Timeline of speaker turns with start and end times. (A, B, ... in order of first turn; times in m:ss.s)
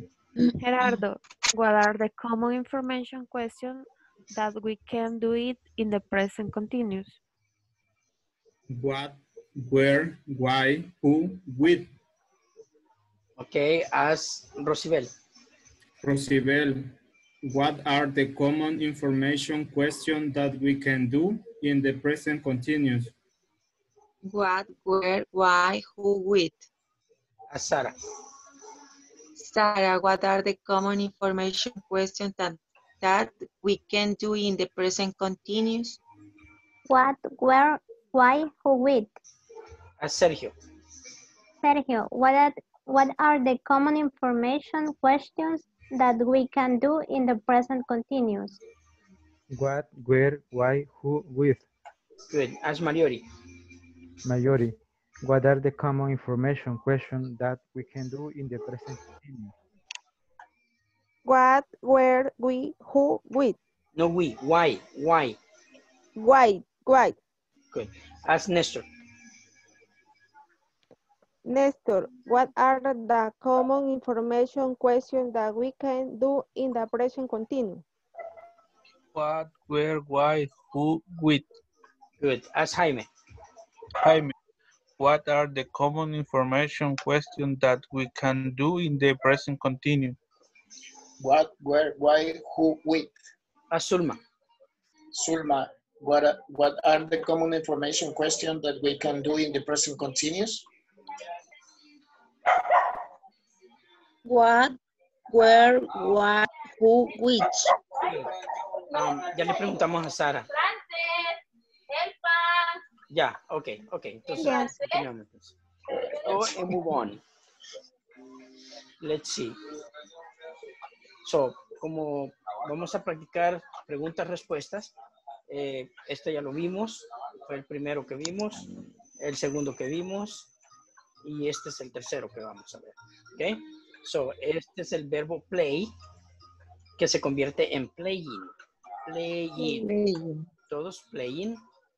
0:00.4-0:00.9 A
0:00.6-0:07.2 B
0:08.7-0:11.9 C
0:13.4-0:15.1 D
0:16.0-0:16.9 C
0:17.4-0:23.1 C
0:24.2-0:26.7 A
0:27.5-0:28.0 D
0:29.4-0:36.0 A
0:36.9-0:39.1 E
0:40.0-0:40.5 D
0:41.6-0:48.6 E
0:49.5-0:51.6 F
0:52.3-0:53.2 D
0:54.2-0:59.5 F
1:01.2-1:03.6 G
1:04.0-1:05.4 D
1:06.2-1:07.2 G
1:07.7-1:08.8 D
1:11.4-1:17.8 G
1:19.1-1:21.4 H
1:22.2-1:23.1 D
1:24.0-1:24.3 H
1:25.0-1:30.2 H
1:31.2-1:33.1 I
1:33.7-1:34.2 D
1:35.1-1:40.6 I
1:44.2-1:44.8 J
1:45.3-1:47.7 J
1:48.0-1:48.3 D
1:48.9-1:50.5 D
1:53.1-1:55.5 D
1:54.4-1:54.7 J
1:56.1-1:57.2 D
1:59.0-1:59.6 D
2:01.2-2:04.9 D
2:05.5-2:08.7 D
2:09.2-2:10.5 D
2:11.2-2:15.9 D
2:17.0-2:18.5 D
2:19.0-2:19.9 D
2:19.8-2:20.2 J
2:19.8-2:20.2 A
2:20.7-2:21.6 D